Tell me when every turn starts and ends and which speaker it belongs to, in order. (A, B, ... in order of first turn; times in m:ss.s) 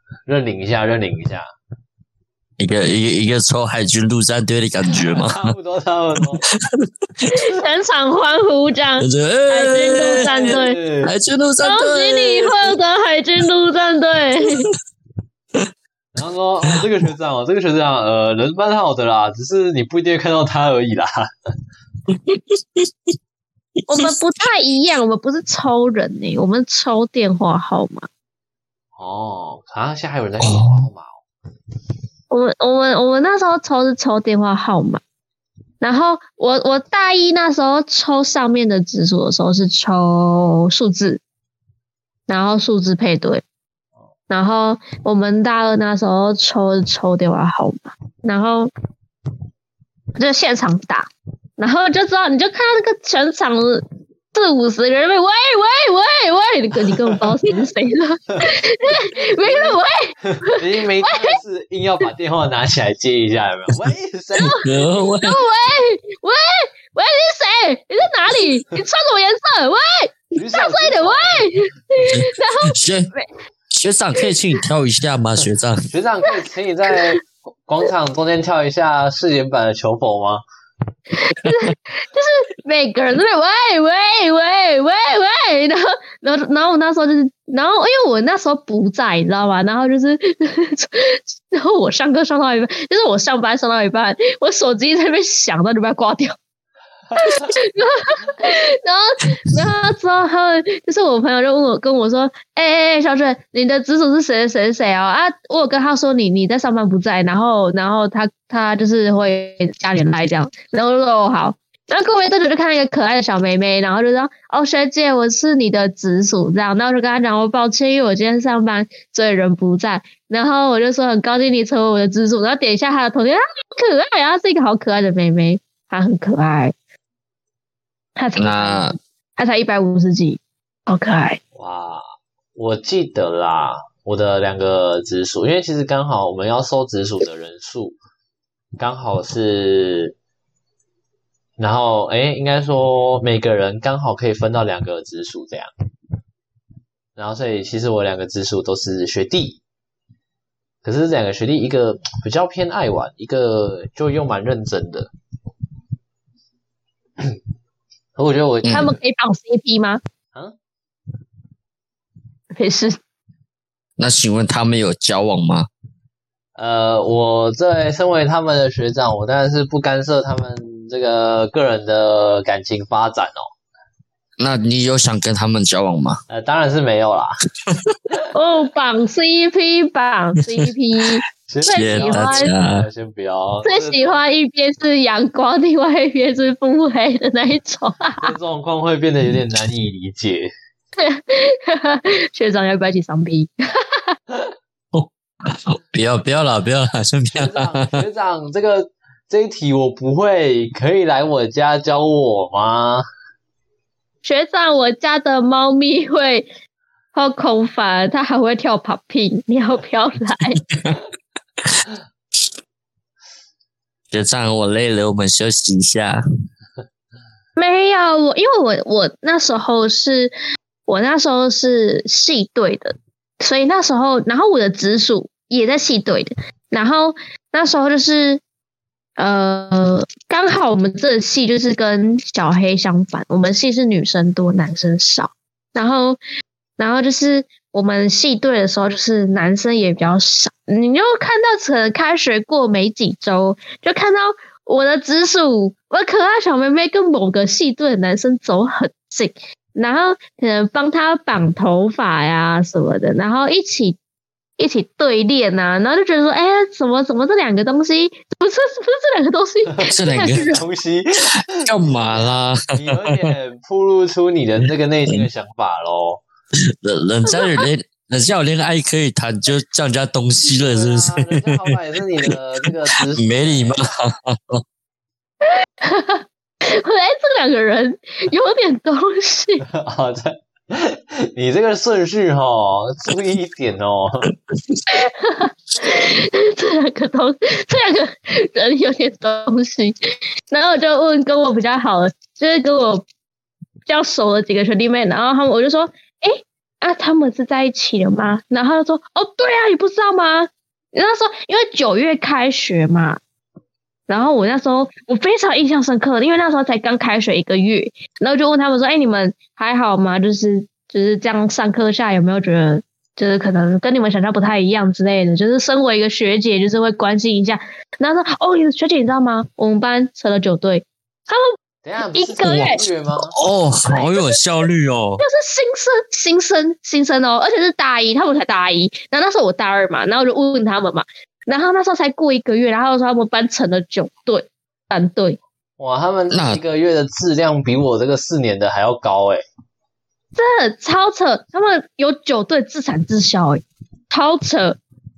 0:00.3-0:01.4 A
0:02.6-0:05.5 B
0:04.9-0:06.4 A
0:06.8-0:07.3 B
0:07.3-0:10.8 C
0:09.0-0:12.7 B
0:10.0-0:11.1 A
0:11.6-0:14.7 C
0:16.1-0:21.2 A
0:22.1-0:22.9 B
0:23.9-0:28.1 C
0:29.0-0:31.2 A
0:30.4-0:30.9 B
0:32.3-0:35.0 C
0:35.8-0:41.2 C
0:42.3-0:43.4 C
0:44.3-0:48.7 C
0:50.2-1:01.4 C
0:59.4-1:04.9 A
1:04.4-1:04.6 C
1:04.6-1:05.4 B
1:05.2-1:13.3 C
1:10.4-1:11.5 A
1:12.1-1:13.1 B
1:13.7-1:15.9 B
1:15.9-1:20.4 A
1:16.9-1:17.2 C
1:21.1-1:36.4 C
1:37.2-2:06.7 C
2:08.2-2:11.4 C
2:08.4-2:09.0 B
2:11.6-2:12.0 A
2:12.6-2:18.0 A
2:18.8-2:20.1 A
2:21.6-2:25.7 A
2:27.2-2:29.6 A
2:30.8-2:35.1 A
2:38.2-2:38.9 A
2:38.6-2:38.9 B
2:38.7-2:40.0 C
2:42.5-2:43.0 C
2:44.0-2:45.7 B
2:46.6-2:53.5 A
2:54.4-2:56.2 B
2:56.3-2:57.4 A
2:58.3-3:02.5 C
3:01.5-3:04.2 A
3:01.7-3:02.9 B
3:03.6-3:08.3 C
3:08.2-3:10.5 A
3:11.0-3:14.1 C
3:14.9-3:18.0 B
3:17.4-3:23.0 A
3:24.2-3:26.5 C
3:27.1-3:30.6 C
3:30.7-3:31.0 B
3:31.6-3:31.9 B
3:34.1-3:36.2 B
3:37.6-3:40.3 C
3:40.9-3:48.4 C
3:49.2-3:56.2 C
3:56.8-4:14.0 C
4:14.6-4:20.6 C
4:19.8-4:26.2 A
4:19.9-4:20.6 B
4:21.6-4:23.3 B
4:26.7-4:34.6 B
4:27.3-4:27.6 C
4:30.6-4:33.8 A
4:35.8-4:39.6 C
4:39.7-4:44.3 A
4:44.5-4:44.8 B
4:44.9-4:50.0 C
4:50.5-4:53.0 C
4:53.9-5:03.2 C
5:04.1-5:21.6 C
5:21.8-5:23.4 A
5:22.1-5:22.8 C
5:22.4-5:25.2 B
5:23.9-5:24.4 C
5:25.2-5:35.4 C
5:35.8-5:39.4 A
5:36.3-5:36.6 B
5:40.4-5:44.8 C